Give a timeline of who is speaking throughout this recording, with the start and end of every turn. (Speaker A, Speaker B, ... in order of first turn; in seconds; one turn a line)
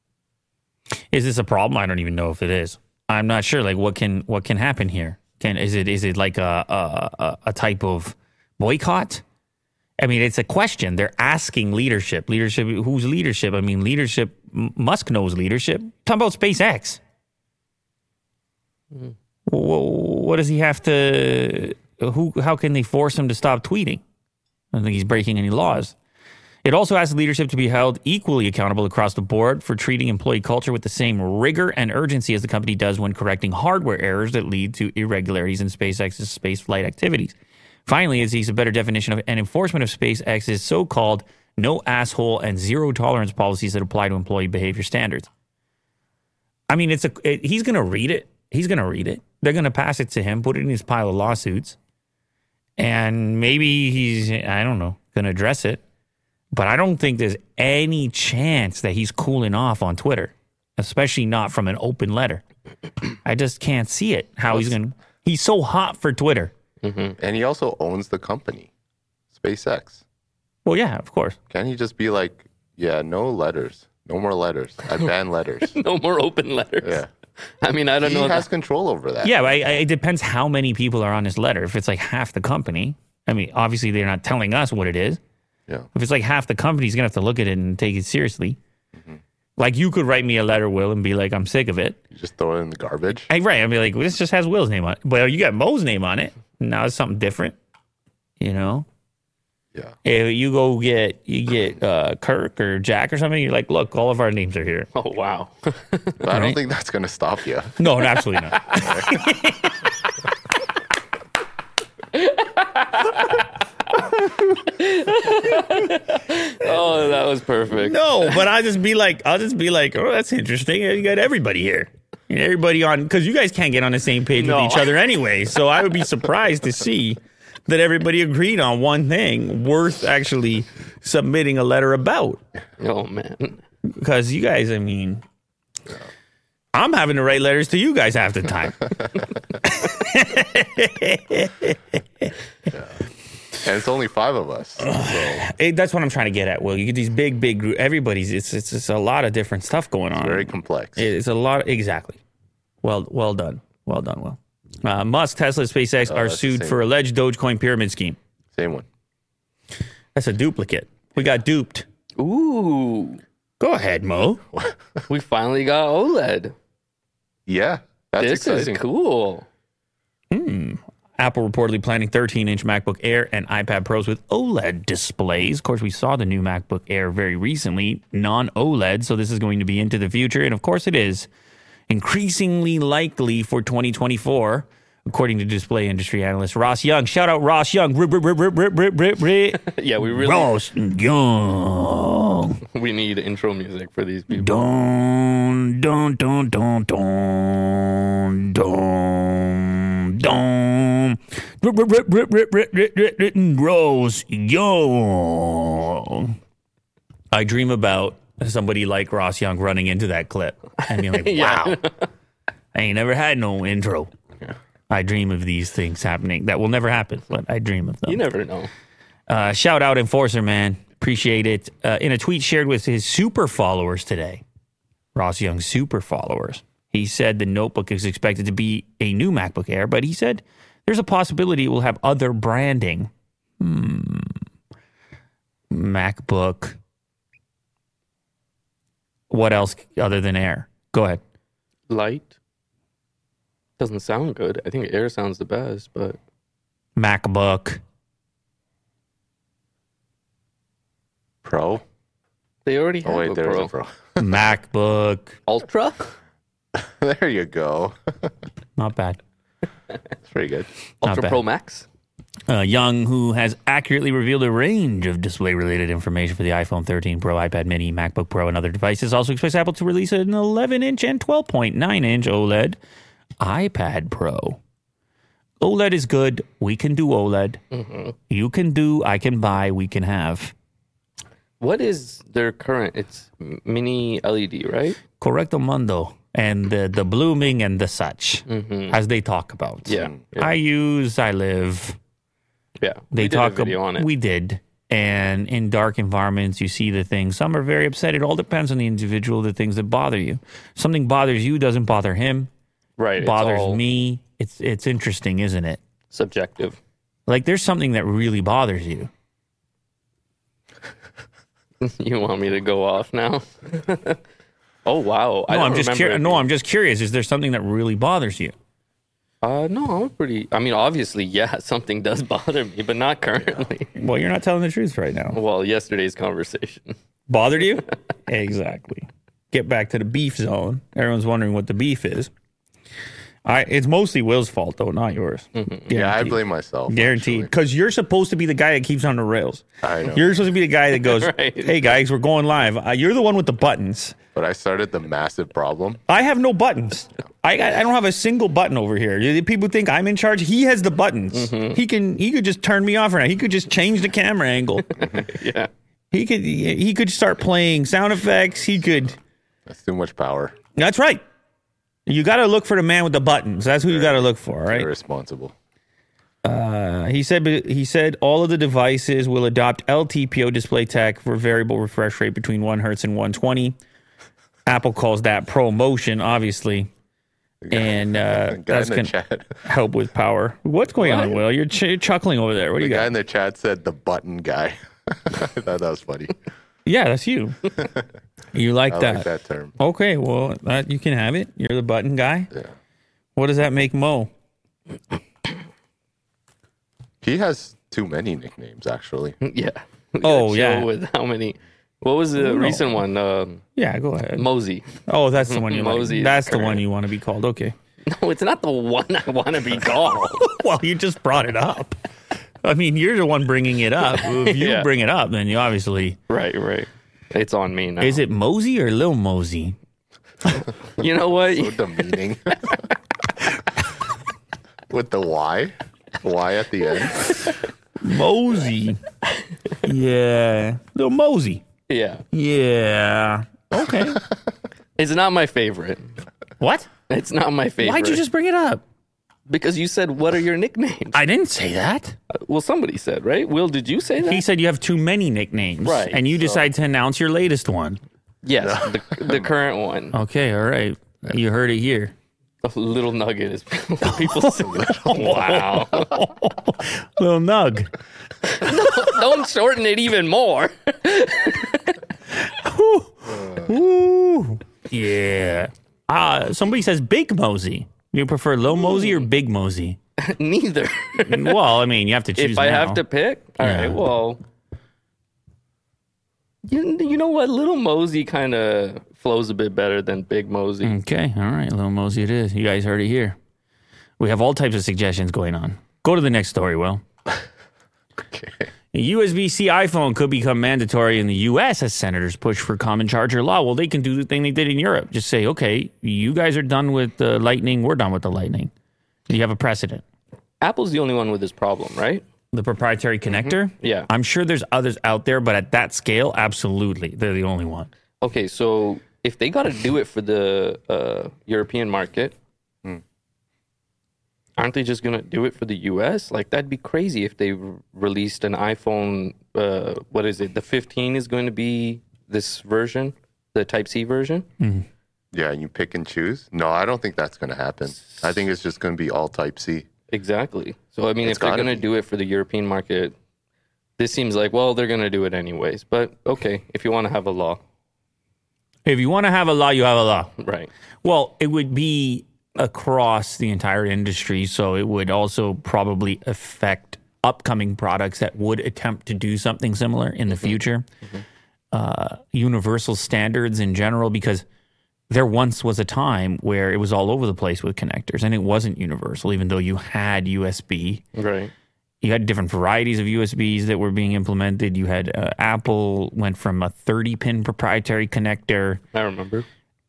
Speaker A: 1.1-9.2
Speaker A: 10.0-17.0
Speaker A: 19.5-24.0
Speaker A: 24.7-25.9
Speaker A: 26.6-37.4
Speaker A: 37.9-45.3
Speaker A: 46.7-51.8
Speaker A: 52.8-55.8
Speaker A: 56.5-62.4
Speaker A: 63.2-66.5
Speaker B: 66.8-67.2
Speaker C: 67.2-68.7
Speaker C: 69.3-70.0
Speaker A: 70.7-71.4
Speaker C: 71.5-75.8
Speaker B: 75.7-77.0
Speaker C: 76.8-77.1
Speaker B: 77.6-78.5
Speaker C: 78.0-79.5
Speaker A: 79.2-85.2
Speaker A: 85.9-88.6
Speaker C: 89.0-89.2
Speaker A: 89.6-92.0
Speaker C: 92.1-93.3
Speaker A: 93.3-97.5
Speaker A: 98.4-98.9
Speaker A: 100.0-104.9
Speaker B: 104.9-106.2
Speaker C: 106.2-107.8
Speaker A: 106.3-106.6
Speaker A: 107.8-109.8
Speaker C: 108.7-109.2
Speaker B: 112.2-113.4
Speaker B: 114.6-118.1
Speaker A: 117.8-132.4
Speaker B: 124.4-125.0
Speaker B: 132.8-133.6
Speaker A: 133.9-135.2
Speaker A: 136.7-142.3
Speaker C: 143.6-145.4
Speaker A: 144.8-152.2
Speaker C: 150.1-151.1
Speaker A: 152.8-158.2
Speaker C: 156.1-156.8
Speaker C: 158.5-158.9
Speaker A: 160.2-161.9
Speaker B: 162.2-163.2
Speaker A: 163.6-164.4
Speaker B: 165.1-166.6
Speaker C: 167.5-168.8
Speaker B: 168.2-169.5
Speaker A: 170.3-181.3
Speaker A: 181.9-192.6
Speaker B: 189.6-190.5
Speaker B: 192.7-194.7
Speaker A: 194.3-206.4
Speaker A: 207.3-211.8
Speaker B: 210.8-212.1
Speaker A: 212.7-214.1
Speaker A: 214.9-218.2
Speaker B: 218.1-218.7
Speaker A: 219.3-224.4
Speaker A: 225.2-234.3
Speaker A: 235.7-236.8
Speaker A: 239.3-241.2
Speaker B: 241.9-242.4
Speaker B: 243.8-246.2
Speaker A: 247.0-247.8
Speaker C: 251.4-251.8
Speaker B: 252.7-253.7
Speaker C: 253.0-254.3
Speaker A: 254.2-255.4
Speaker B: 255.5-256.2
Speaker C: 256.8-258.3
Speaker A: 258.8-259.2
Speaker B: 260.3-261.9
Speaker A: 261.0-261.4
Speaker A: 262.5-272.8
Speaker A: 273.4-274.6
Speaker A: 275.6-277.6
Speaker B: 277.7-278.1
Speaker A: 278.3-280.5
Speaker B: 281.6-285.0
Speaker A: 285.2-292.0
Speaker B: 288.5-289.0
Speaker B: 289.9-290.5
Speaker B: 292.8-294.1
Speaker A: 293.1-302.5
Speaker B: 303.0-303.8
Speaker A: 303.2-305.8
Speaker B: 306.1-306.8
Speaker A: 307.3-309.1
Speaker B: 311.8-314.2
Speaker B: 314.9-316.4
Speaker A: 315.5-318.5
Speaker B: 319.4-323.9
Speaker A: 324.0-325.4
Speaker B: 325.3-326.9
Speaker A: 327.3-332.3
Speaker A: 333.4-344.2
Speaker B: 335.6-335.9
Speaker C: 335.9-337.5
Speaker C: 339.8-340.3
Speaker B: 340.9-341.9
Speaker C: 344.4-346.0
Speaker A: 346.1-355.1
Speaker B: 351.3-351.8
Speaker B: 355.0-355.7
Speaker A: 356.1-359.2
Speaker C: 359.7-360.6
Speaker A: 360.8-361.2
Speaker A: 362.1-364.9
Speaker C: 363.9-365.5
Speaker A: 366.4-373.8
Speaker A: 374.7-376.9
Speaker C: 377.6-379.6
Speaker A: 377.7-379.1
Speaker A: 379.6-383.1
Speaker B: 381.0-381.4
Speaker C: 382.8-386.4
Speaker A: 386.9-387.8
Speaker A: 388.5-392.5
Speaker C: 388.9-389.8
Speaker A: 393.4-394.3
Speaker C: 397.2-399.4
Speaker B: 399.4-403.6
Speaker A: 400.2-400.9
Speaker A: 402.4-403.0
Speaker A: 403.8-404.5
Speaker B: 404.4-406.8
Speaker A: 405.1-407.8
Speaker B: 408.1-410.5
Speaker A: 410.4-412.0
Speaker A: 412.6-416.2
Speaker B: 414.2-414.9
Speaker B: 416.3-418.2
Speaker A: 418.0-419.8
Speaker B: 420.9-422.0
Speaker C: 421.4-422.8
Speaker C: 424.9-427.5
Speaker A: 428.0-429.0
Speaker A: 429.8-431.6
Speaker B: 431.9-432.2
Speaker A: 432.3-434.2
Speaker B: 435.0-436.1
Speaker A: 436.6-436.9
Speaker B: 437.1-438.2
Speaker A: 437.8-438.8
Speaker B: 439.5-441.2
Speaker A: 441.1-442.2
Speaker B: 442.3-444.4
Speaker A: 444.3-448.0
Speaker B: 445.8-446.6
Speaker B: 448.4-450.2
Speaker A: 450.1-452.1
Speaker B: 452.6-456.2
Speaker A: 454.2-457.9
Speaker B: 458.4-462.0
Speaker A: 462.3-470.0
Speaker B: 470.2-471.6
Speaker A: 471.3-473.0
Speaker B: 472.4-474.4
Speaker A: 473.6-474.0
Speaker B: 476.7-480.9
Speaker A: 480.8-483.4
Speaker A: 484.2-487.0
Speaker C: 488.2-488.7
Speaker A: 488.9-498.7
Speaker A: 499.3-500.0
Speaker B: 500.6-502.2
Speaker A: 502.5-507.9
Speaker C: 503.3-503.6
Speaker B: 503.8-504.1
Speaker B: 508.2-512.4
Speaker B: 514.6-524.5
Speaker A: 524.6-524.9
Speaker C: 525.3-529.9
Speaker B: 530.1-533.1
Speaker C: 531.2-531.8
Speaker B: 534.0-537.6
Speaker A: 538.9-540.3
Speaker B: 540.4-540.7
Speaker A: 541.0-550.9
Speaker A: 551.7-554.5
Speaker A: 555.1-561.0
Speaker B: 561.1-561.5
Speaker A: 562.0-568.8
Speaker B: 568.9-569.5